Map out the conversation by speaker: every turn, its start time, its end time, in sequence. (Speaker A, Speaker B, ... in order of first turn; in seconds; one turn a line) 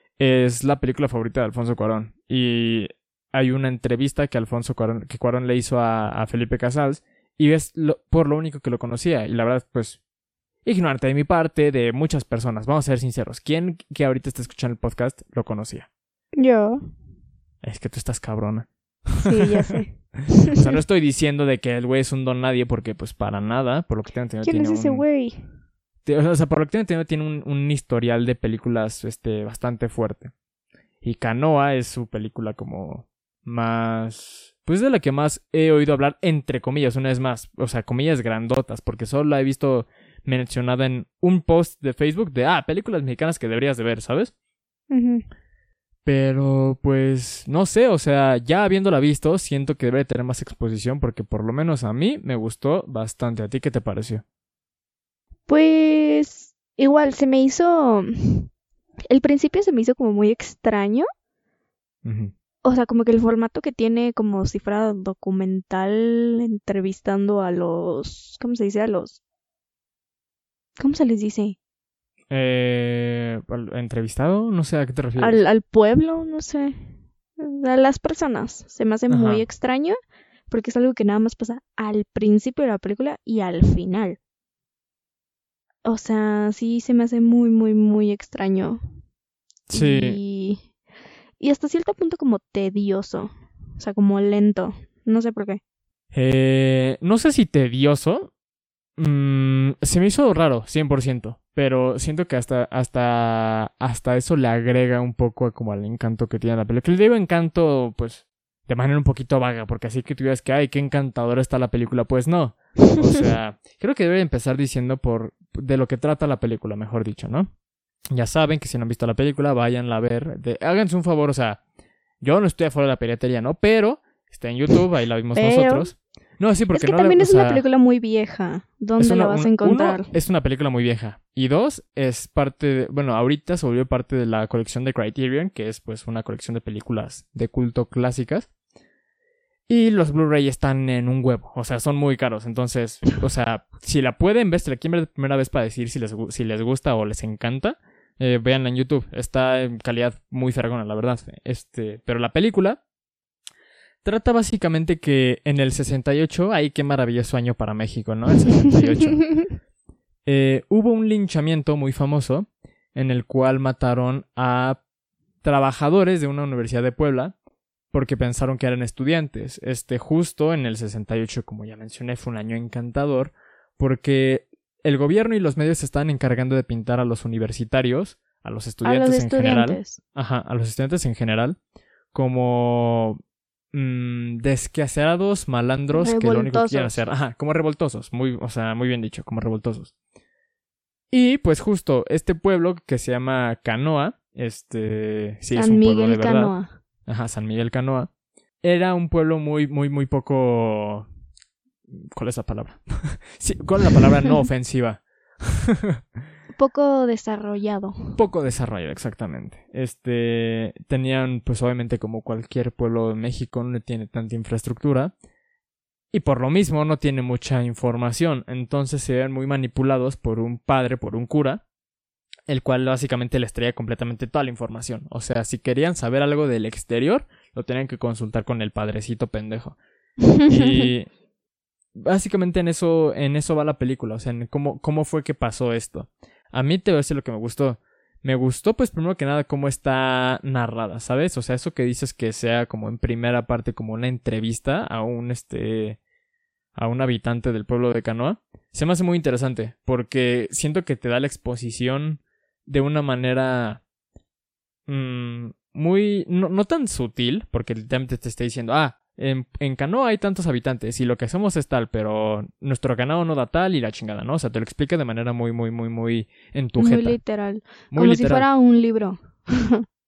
Speaker A: 0.2-10.0
Speaker A: 10.6-15.9
Speaker B: 16.3-16.8
Speaker A: 17.6-19.7
Speaker B: 19.2-20.6
Speaker A: 20.4-25.0
Speaker B: 24.4-25.4
Speaker A: 26.0-30.3
Speaker A: 31.0-44.3
Speaker B: 44.9-45.2
Speaker A: 46.0-54.2
Speaker B: 55.5-58.5
Speaker B: 59.1-61.0
Speaker A: 62.0-62.3
Speaker B: 62.6-69.2
Speaker B: 70.8-71.6
Speaker A: 72.3-75.4
Speaker B: 75.2-80.0
Speaker A: 79.1-79.4
Speaker B: 80.5-84.2
Speaker B: 85.8-88.8
Speaker A: 89.7-90.2
Speaker B: 89.7-90.7
Speaker B: 91.4-95.6
Speaker A: 96.1-98.3
Speaker A: 99.0-117.5
Speaker A: 118.1-121.6
Speaker A: 122.2-127.6
Speaker B: 125.3-125.9
Speaker B: 126.7-130.1
Speaker A: 129.0-138.5
Speaker A: 139.7-152.8
Speaker A: 154.0-159.3
Speaker A: 160.2-164.8
Speaker A: 165.4-167.3
Speaker A: 167.9-181.6
Speaker B: 178.8-180.0
Speaker A: 182.1-183.2
Speaker A: 183.7-189.9
Speaker B: 185.9-187.0
Speaker A: 191.1-196.5
Speaker B: 195.5-196.8
Speaker A: 197.1-198.1
Speaker A: 198.6-201.1
Speaker A: 201.9-206.0
Speaker B: 206.5-208.2
Speaker A: 208.1-215.1
Speaker A: 216.1-221.6
Speaker A: 222.5-229.8
Speaker B: 230.2-230.9
Speaker A: 230.4-231.1
Speaker A: 231.9-246.0
Speaker A: 246.7-253.8
Speaker A: 254.9-267.2
Speaker B: 266.8-269.9
Speaker A: 267.9-268.4